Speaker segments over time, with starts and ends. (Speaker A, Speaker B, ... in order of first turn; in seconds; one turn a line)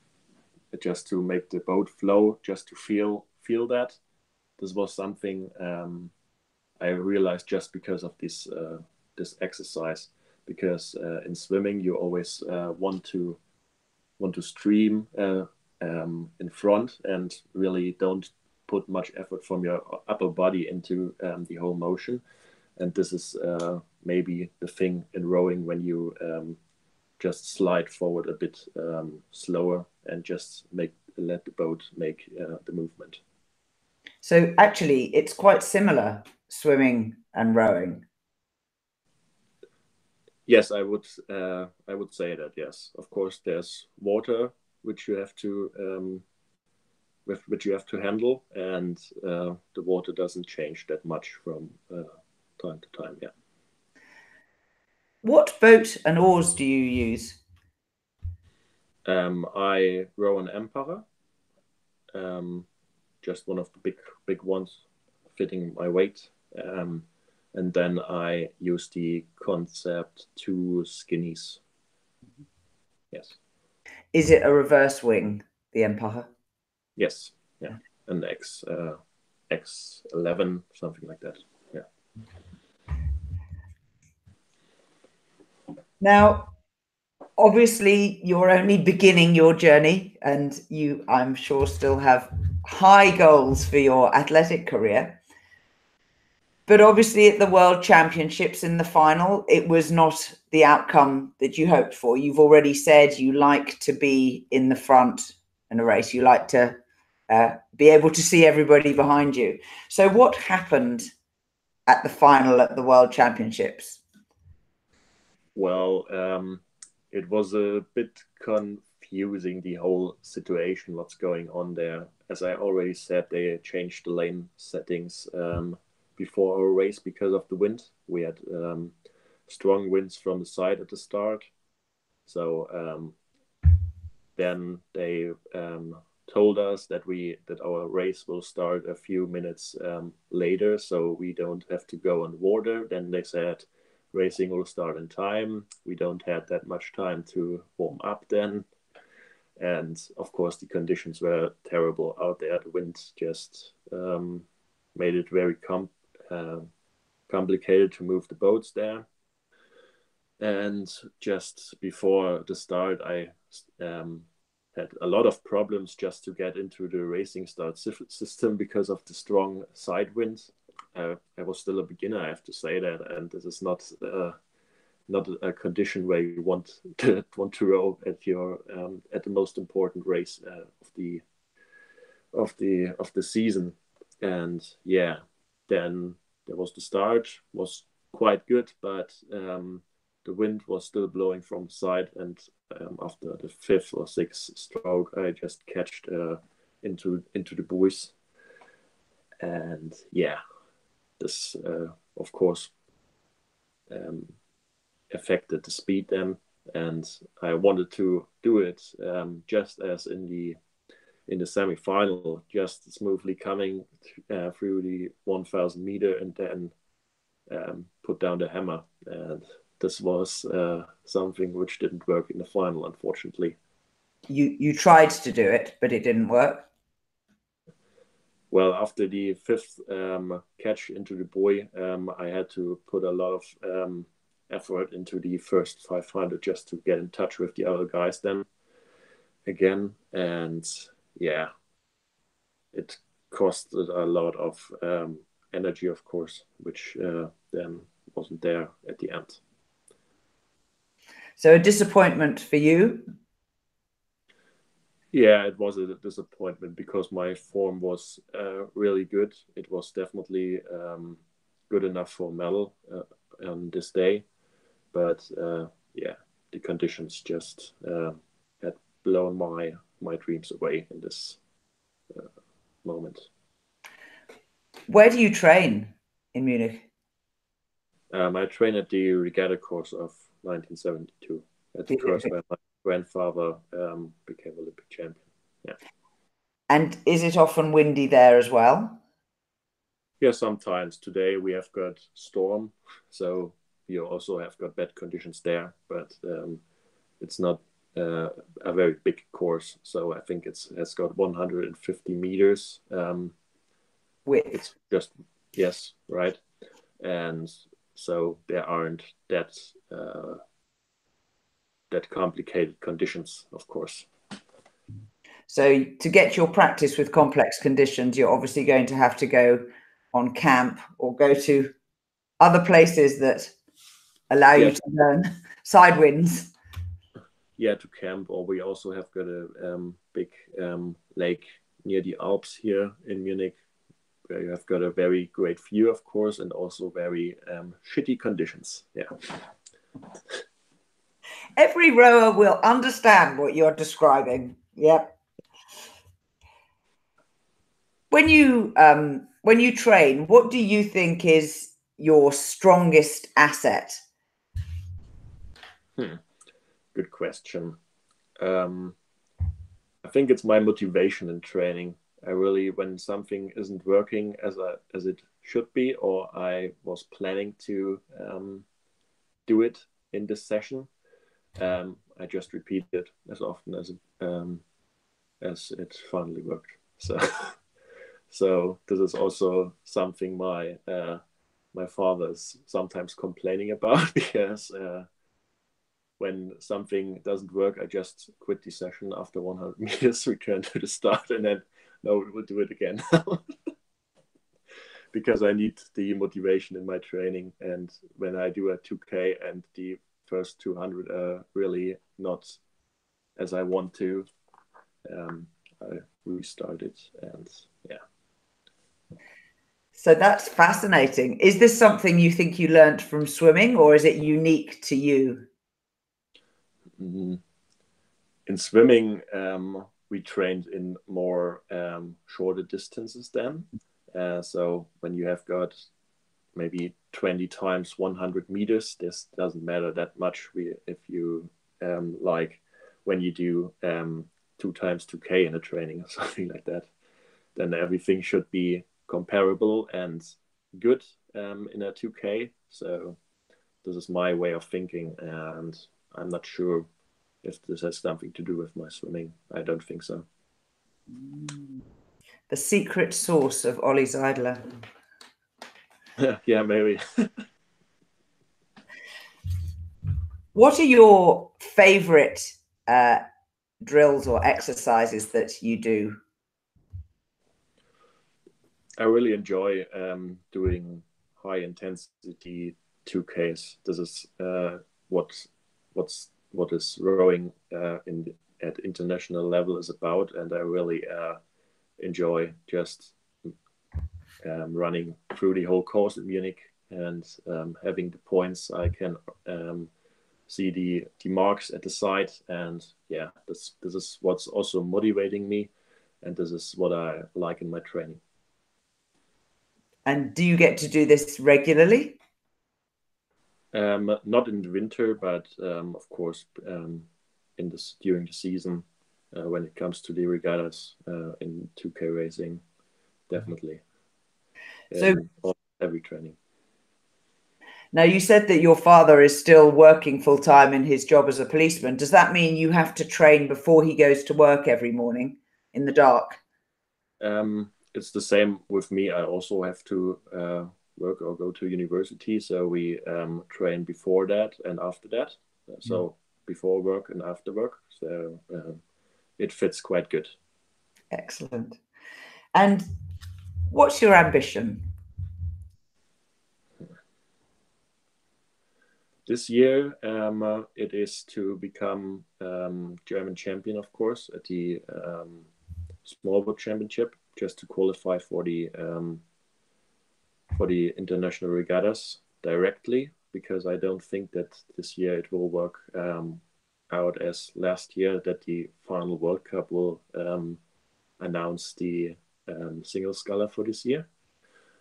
Speaker A: 0.7-4.0
Speaker A: 4.6-6.1
Speaker A: 6.8-13.4
Speaker A: 14.2-22.2
Speaker A: 22.8-26.6
Speaker A: 27.2-33.2
Speaker B: 34.2-38.0
Speaker A: 40.5-46.2
Speaker A: 47.2-53.3
Speaker B: 55.2-57.4
Speaker A: 59.0-61.0
Speaker A: 62.1-62.7
Speaker A: 63.2-64.8
Speaker A: 65.3-71.6
Speaker A: 73.1-73.4
Speaker B: 74.1-76.3
Speaker A: 77.0-79.0
Speaker A: 79.5-81.8
Speaker B: 86.0-86.5
Speaker B: 87.4-95.2
Speaker B: 96.7-111.1
Speaker B: 111.9-114.0
Speaker A: 115.5-128.9
Speaker A: 129.5-131.5
Speaker A: 132.2-133.2
Speaker A: 134.3-148.7
Speaker A: 149.6-156.7
Speaker A: 157.3-159.1
Speaker A: 160.4-174.3
Speaker A: 175.1-181.2
Speaker A: 182.3-198.1
Speaker A: 199.4-200.4
Speaker A: 201.2-202.7
Speaker A: 203.9-204.3
Speaker A: 205.1-210.6
Speaker A: 211.3-216.7
Speaker A: 217.5-223.6
Speaker B: 224.3-226.7
Speaker A: 228.5-238.5
Speaker A: 239.4-241.5
Speaker A: 242.7-249.4
Speaker B: 251.4-253.1
Speaker A: 255.1-264.2
Speaker A: 264.9-271.4
Speaker A: 272.8-273.3
Speaker B: 274.9-276.9
Speaker A: 278.1-285.8
Speaker B: 281.9-282.3
Speaker B: 286.7-289.0
Speaker A: 290.2-296.6
Speaker A: 297.2-303.3
Speaker B: 304.3-304.6
Speaker A: 304.5-306.4
Speaker A: 307.0-310.4
Speaker A: 311.9-314.1
Speaker B: 315.5-321.7
Speaker B: 322.4-323.5
Speaker B: 324.3-326.5
Speaker A: 327.6-333.6
Speaker A: 334.3-339.4
Speaker B: 341.6-345.1
Speaker B: 348.1-354.0
Speaker A: 355.9-356.2
Speaker A: 356.9-357.8
Speaker A: 358.4-358.9
Speaker A: 360.0-368.6
Speaker A: 369.5-370.9
Speaker A: 371.6-374.6
Speaker A: 375.4-377.6
Speaker A: 378.3-381.2
Speaker A: 381.7-385.1
Speaker A: 386.2-393.5
Speaker A: 395.1-402.6
Speaker A: 403.4-404.3
Speaker A: 405.1-408.0
Speaker B: 410.0-415.5
Speaker A: 417.0-417.4
Speaker A: 418.4-425.7
Speaker A: 426.5-436.9
Speaker A: 437.5-443.2
Speaker A: 443.8-446.9
Speaker A: 447.4-450.2
Speaker B: 451.1-451.8
Speaker B: 452.5-454.8
Speaker A: 456.2-457.4
Speaker B: 460.5-463.2
Speaker B: 463.8-466.2
Speaker A: 469.0-481.4
Speaker A: 482.0-483.5
Speaker A: 484.4-489.9
Speaker A: 490.5-495.7
Speaker A: 496.2-498.2
Speaker B: 500.1-502.2
Speaker A: 503.7-512.6
Speaker A: 513.3-513.8
Speaker A: 514.9-516.4
Speaker B: 517.9-526.4
Speaker A: 527.2-538.8
Speaker A: 539.4-540.3
Speaker B: 541.1-541.8
Speaker B: 542.5-542.9
Speaker B: 543.7-544.9
Speaker A: 549.2-555.5
Speaker A: 556.0-559.2
Speaker A: 560.5-570.6
Speaker A: 571.2-574.0